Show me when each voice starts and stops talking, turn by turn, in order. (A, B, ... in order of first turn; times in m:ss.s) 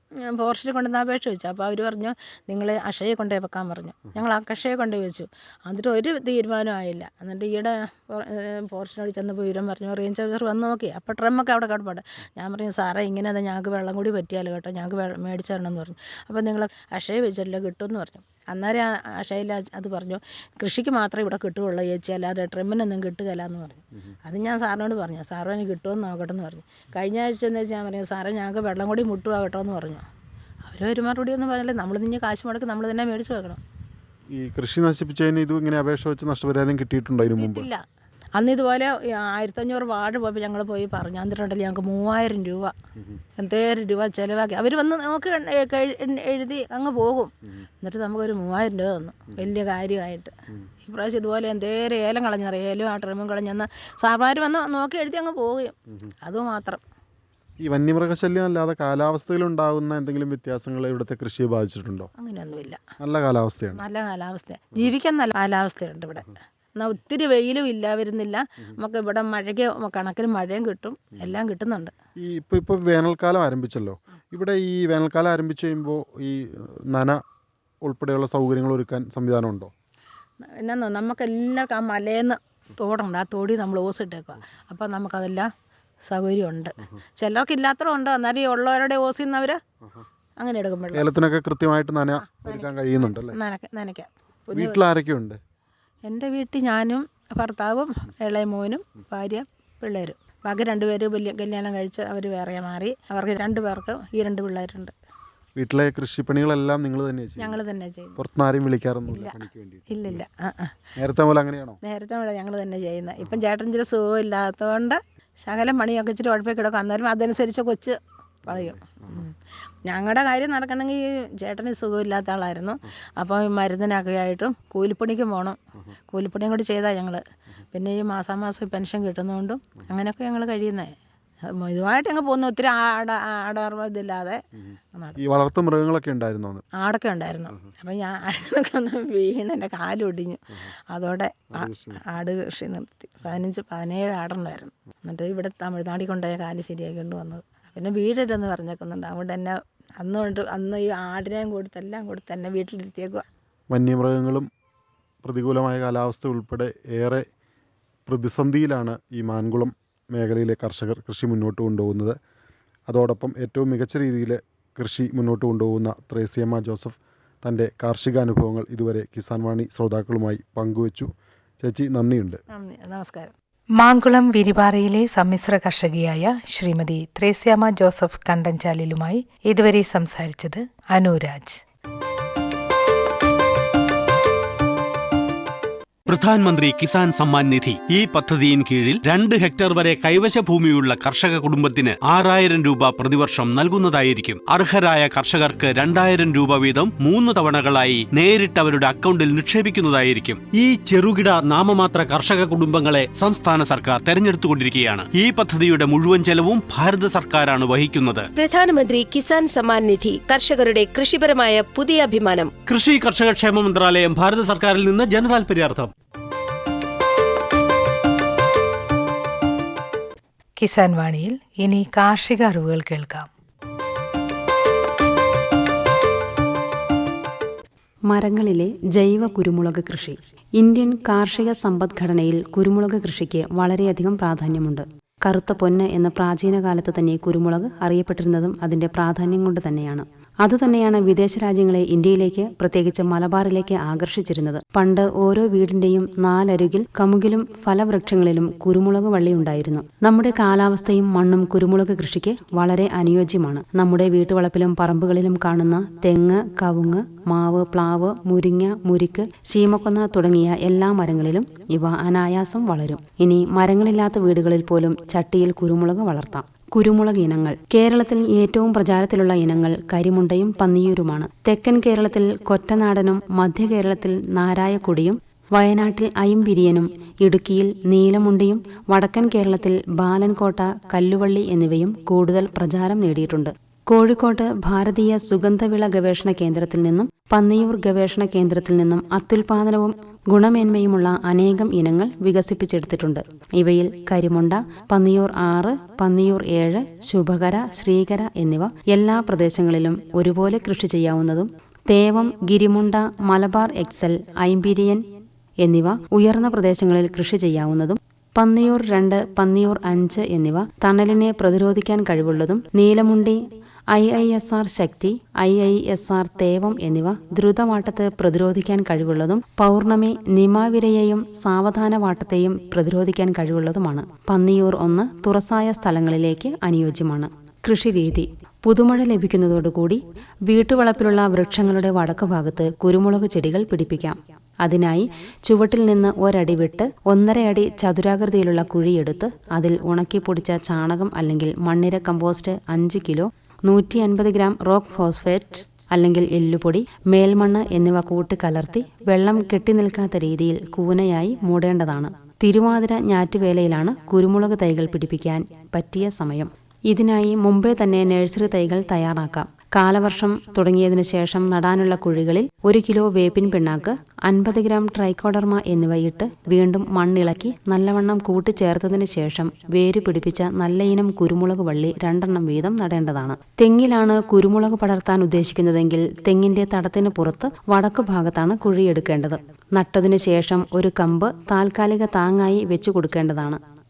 0:00.2-0:30.0 A
0:30.6-0:33.6 A
0:34.3-0:37.7 B
0:37.3-0:37.8 A
0:38.3-0:42.7 A
0:43.4-0:56.8 A
0:57.6-1:02.1 B
1:02.2-1:02.8 A
1:03.0-1:03.8 B
1:03.7-1:11.9 A
1:12.2-1:17.2 B
1:17.8-1:19.7 B
1:20.4-1:25.5 A
1:26.0-1:29.6 A
1:30.4-1:31.0 A
1:30.9-1:33.4 B
1:32.2-1:34.8 A
1:34.5-1:35.4 B
1:36.0-1:44.9 A
1:45.6-1:47.6 B
1:47.4-1:48.2 A
1:48.2-1:50.2 B
1:49.1-1:49.4 A
1:49.9-1:50.7 A
1:51.0-1:51.8 B
1:51.8-1:59.3 A
1:58.4-1:59.2 B
1:59.8-2:05.6 A
2:06.1-2:10.9 A
2:11.5-2:14.4 A
2:14.6-2:16.6 B
2:16.8-2:33.2 A
2:21.5-2:22.0 B
2:33.7-2:34.5 B
2:35.2-2:37.3 B
2:38.1-2:42.2 B
2:42.9-2:52.4 B
2:52.5-2:53.3 A
2:53.8-3:01.6 C
3:06.0-3:28.3 D
3:28.3-3:32.5 E
3:32.6-3:35.9 D
3:40.6-3:43.3 C
3:48.1-5:05.0 F
5:05.6-5:13.4 F
5:13.9-6:23.6 F